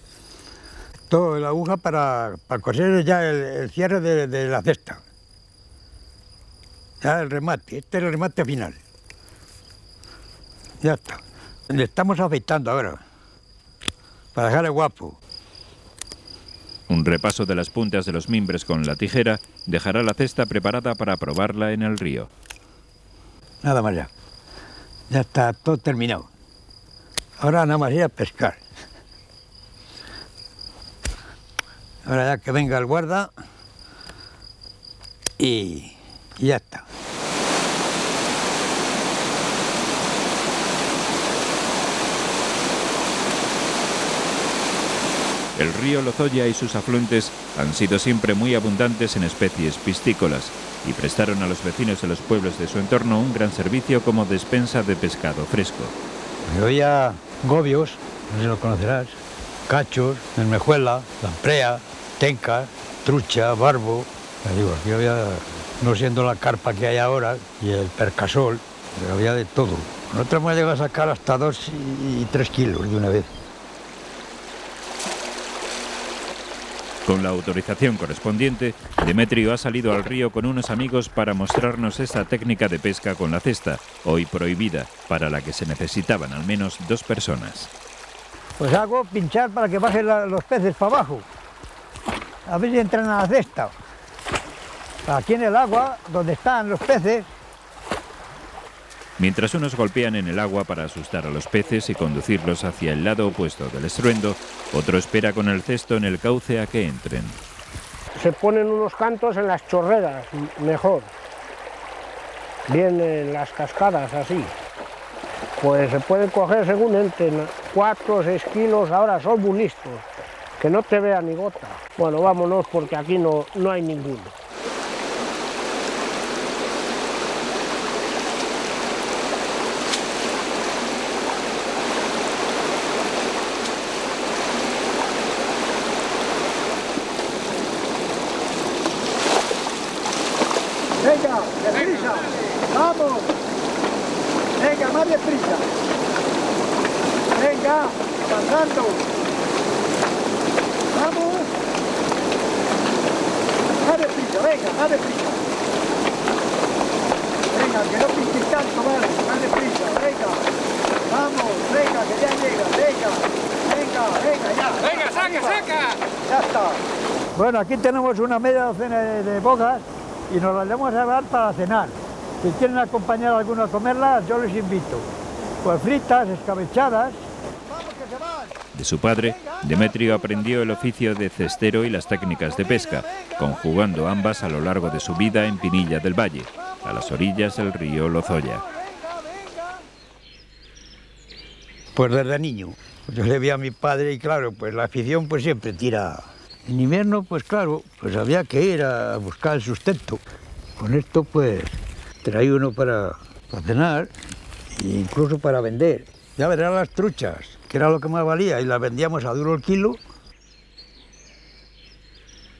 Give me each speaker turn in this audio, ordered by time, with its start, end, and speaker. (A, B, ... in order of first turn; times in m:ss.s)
0:01.1-0:05.0 A
0:07.0-0:08.8 A
0:10.8-0:13.0 A
0:14.4-0:15.2 A
0:16.9-0:22.3 B
0:23.6-0:24.1 A
0:25.1-0:26.3 A
0:27.4-0:28.6 A
0:32.0-0:33.3 A
0:35.4-0:36.8 A
0:45.6-0:55.9 B
0:56.5-1:13.3 A
1:17.0-1:27.7 B
1:28.6-1:31.3 A
1:32.5-1:33.7 A
1:35.1-1:37.3 A
1:39.2-1:47.4 B
1:48.2-1:51.1 C
1:52.7-1:54.6 C
1:55.6-2:00.0 C
2:00.6-2:04.3 C
2:21.0-2:23.3 A
2:24.6-2:25.7 A
2:27.4-2:29.0 A
2:30.9-2:31.5 A
2:33.8-2:35.4 A
2:37.5-2:40.4 A
2:41.1-2:46.8 A
2:47.4-2:55.1 A
2:55.6-2:57.2 A
2:58.7-3:08.7 B
3:12.0-3:20.2 A
3:20.8-3:24.1 A
3:24.7-3:30.0 A